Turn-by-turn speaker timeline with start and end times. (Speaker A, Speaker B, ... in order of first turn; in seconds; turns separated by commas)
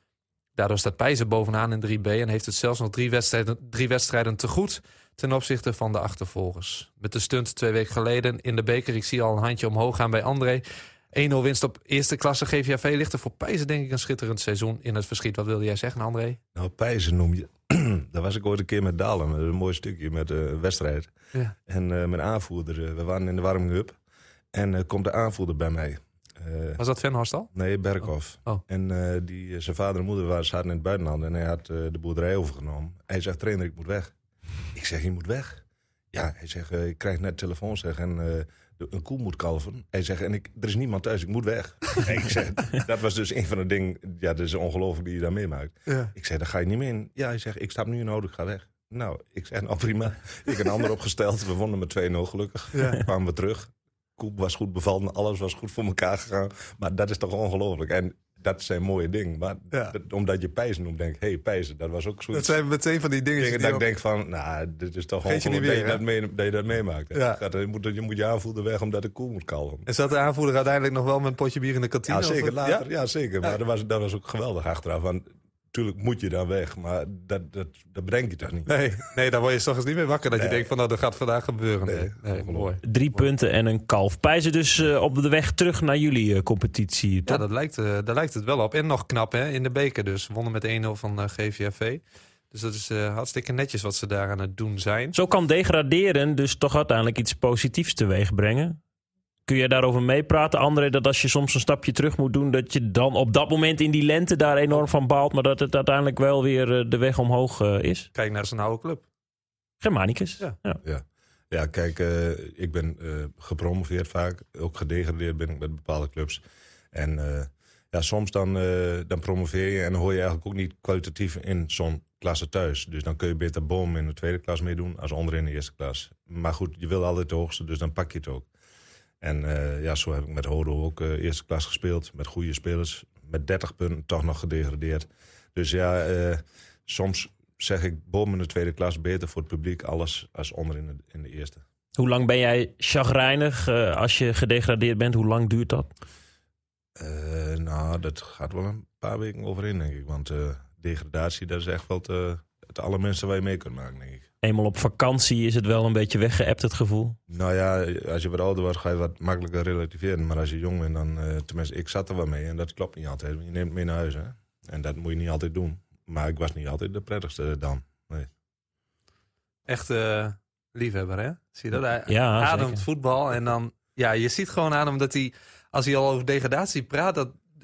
Speaker A: 0.6-16.4, Speaker B: 16.6-21.1, Speaker B: 21.7-24.0, Speaker B: 24.5-26.8, Speaker A: 26.8-27.5, Speaker B: 27.5-34.1, Speaker B: 34.7-62.6, Speaker A: 45.9-46.1, Speaker A: 52.7-53.0, Speaker A: 62.3-63.8, Speaker B: 63.4-69.9, Speaker A: 65.2-66.0, Speaker A: 67.1-67.4, Speaker A: 69.9-72.8, Speaker B: 72.1-78.7, Speaker A: 78.7-83.2, Speaker B: 80.4-80.7, Speaker B: 81.9-82.7, Speaker C: 82.8-87.4, Speaker A: 87.3-95.2, Speaker C: 95.1-98.8, Speaker C: 99.5-108.1, Speaker A: 108.1-109.0, Speaker C: 109.8-110.8, Speaker B: 110.8-116.4, Speaker B: 116.9-128.5, Speaker B: 129.2-141.6, Speaker C: 142.0-145.9, Speaker B: 147.0-154.3, Speaker C: 154.4-157.2, Speaker B: 157.3-168.3, Speaker A: 169.7-177.4, Speaker C: 172.1-172.8